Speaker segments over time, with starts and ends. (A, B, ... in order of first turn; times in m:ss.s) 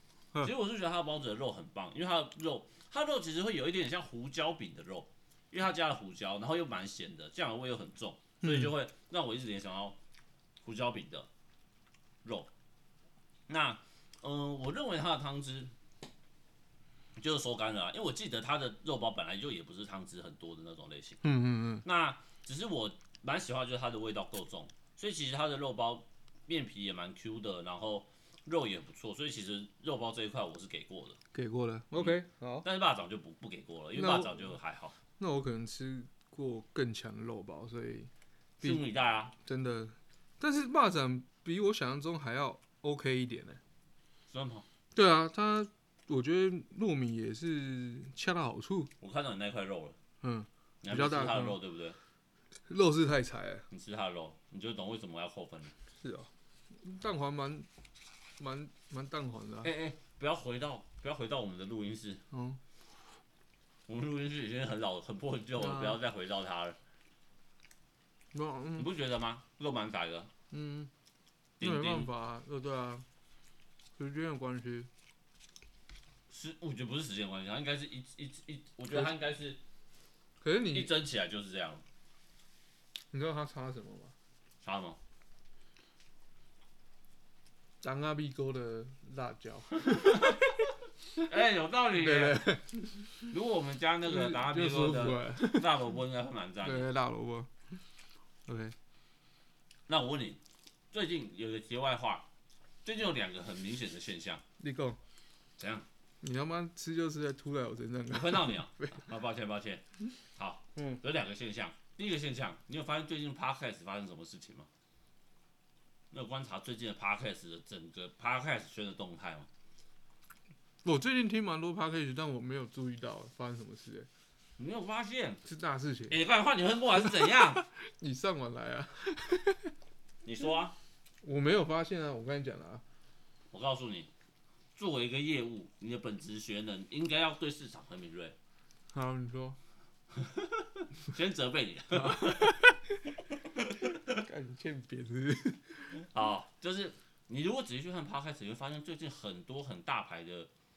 0:00.4-0:10.0 A
0:08.4-0:08.7 B
0:10.6-0:11.3 A
0:12.2-0:12.5 A
0:13.5-0:15.7 A
0:17.2-0:21.2 A
0:21.2-0:21.8 B
0:21.8-0:31.2 A
0:31.3-0:32.7 B
0:31.9-0:35.0 A
0:34.0-0:34.5 B
0:35.2-0:38.8 B
0:38.6-0:39.3 A
0:39.4-0:43.6 B
0:44.3-0:44.7 A
0:45.0-0:48.9 B
0:49.0-0:50.0 A
0:50.2-0:51.6 B
0:50.8-0:52.0 A
0:52.7-0:53.7 B
0:53.7-0:55.7 A
0:55.9-0:57.7 B
0:58.4-0:59.7 B
0:59.6-1:02.2 A
1:02.3-1:02.6 B
1:03.9-1:06.8 A
1:05.6-1:06.0 B
1:08.3-1:08.9 B
1:08.8-1:10.3 A
1:10.5-1:10.9 B
1:11.6-1:12.1 A
1:11.6-1:13.0 B
1:14.0-1:14.9 B
1:16.3-1:19.6 A
1:20.4-1:20.9 B
1:20.7-1:21.8 A
1:23.1-1:24.1 B
1:24.6-1:25.0 A
1:27.8-1:30.5 B
1:29.8-1:30.4 A
1:31.2-1:32.6 A
1:32.0-1:33.2 B
1:33.2-1:36.9 A
1:34.1-1:35.7 B
1:36.6-1:37.5 B
1:38.5-1:38.8 B
1:39.9-1:40.4 A
1:40.9-1:42.3 A
1:42.8-1:44.4 A
1:44.6-1:45.0 B
1:45.6-1:45.9 A
1:46.2-1:49.0 B
1:48.1-1:49.8 A
1:50.4-1:54.7 A
1:50.8-1:51.0 B
1:56.1-1:59.5 A
2:00.8-2:04.1 B
2:04.6-2:05.4 A
2:05.4-2:06.2 B
2:06.1-2:07.6 A
2:07.2-2:09.7 B
2:10.2-2:10.8 A
2:11.2-2:12.8 B
2:13.5-2:14.1 A
2:14.8-2:18.4 A
2:18.9-2:19.6 B
2:20.2-2:22.7 A
2:21.9-2:22.8 B
2:23.5-2:24.2 A
2:24.1-2:26.1 B
2:26.0-2:30.5 A